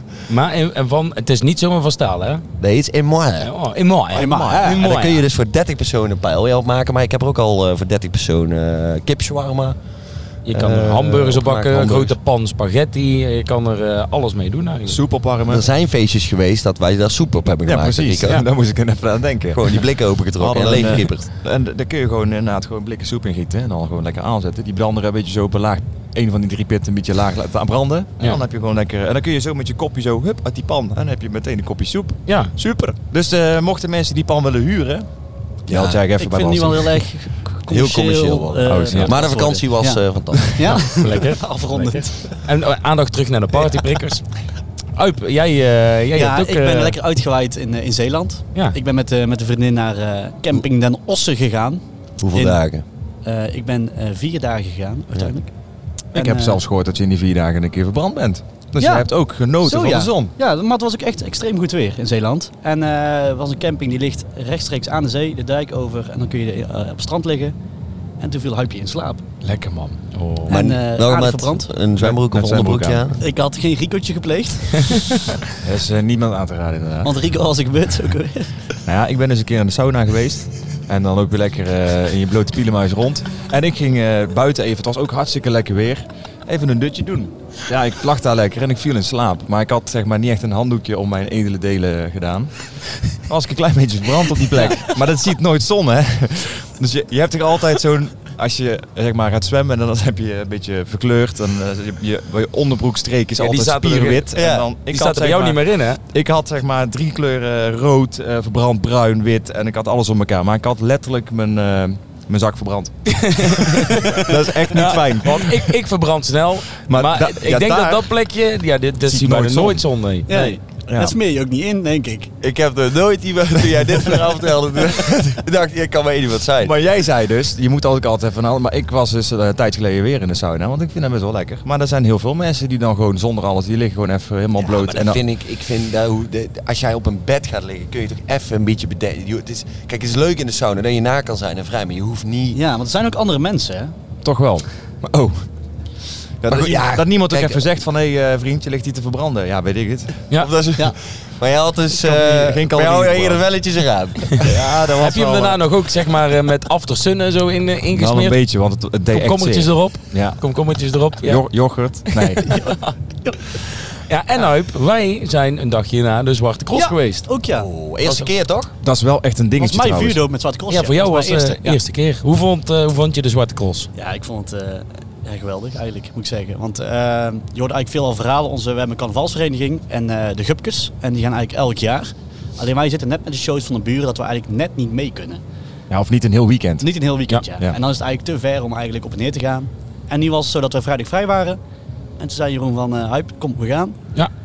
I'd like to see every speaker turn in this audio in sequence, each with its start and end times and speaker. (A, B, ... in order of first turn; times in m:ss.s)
0:00.3-0:02.4 A
0:02.6-0:03.5 B
0:03.4-0:05.2 A
0:04.1-0:04.8 C
0:04.1-0:04.8 D
0:04.6-0:09.8 B
0:10.4-0:15.0 A
0:10.5-0:12.1 B
0:14.8-0:15.7 D
0:15.5-0:18.4 B
0:17.6-0:19.8 D
0:19.5-0:21.3 B
0:20.4-0:35.0 D
0:32.3-0:32.5 A
0:35.7-0:36.0 B
0:35.7-0:37.0 D
0:36.2-0:42.2 C
0:37.7-0:40.9 B
0:38.6-0:39.1 D
0:40.7-0:44.2 A
0:45.0-0:47.0 A
0:46.1-0:51.8 C
0:52.2-0:52.8 B
0:52.3-0:52.6 C
0:53.2-0:55.5 C
0:56.1-0:56.6 C
0:56.1-1:00.3 D
0:58.8-0:59.1 C
0:59.6-1:07.5 C
1:08.2-1:09.2 C
1:09.4-1:10.0 D
1:10.1-1:10.5 A
1:10.5-1:11.6 C
1:10.5-1:13.2 B
1:12.0-1:13.0 D
1:13.2-1:15.4 C
1:15.6-1:17.1 D
1:17.0-1:18.5 C
1:18.8-1:55.7 D
1:43.4-1:44.3 A
1:44.3-1:44.7 B
1:44.9-1:46.0 A
1:53.0-2:00.5 A
1:56.9-1:58.1 D
1:59.0-2:01.2 D
2:00.3-2:02.3 C
2:02.4-2:06.7 B
2:06.6-2:15.2 D
2:14.6-2:22.6 B
2:22.5-2:23.9 C
2:24.2-2:25.5 D
2:26.4-2:30.3 D
2:26.5-2:27.6 B
2:30.4-2:35.1 B
2:32.0-2:33.4 D
2:34.4-2:35.5 D
2:34.9-2:38.4 A
2:37.9-2:40.4 D
2:39.1-2:41.5 A
2:41.2-2:42.5 D
2:42.1-2:42.9 A
2:44.1-2:47.3 A
2:46.7-2:47.7 C
2:47.5-2:48.7 B
2:48.8-2:50.2 D
2:49.6-2:51.8 C
2:50.7-2:53.9 A
2:54.0-3:05.4 C
3:05.9-3:06.9 D
3:06.8-3:11.6 C
3:12.2-3:14.0 C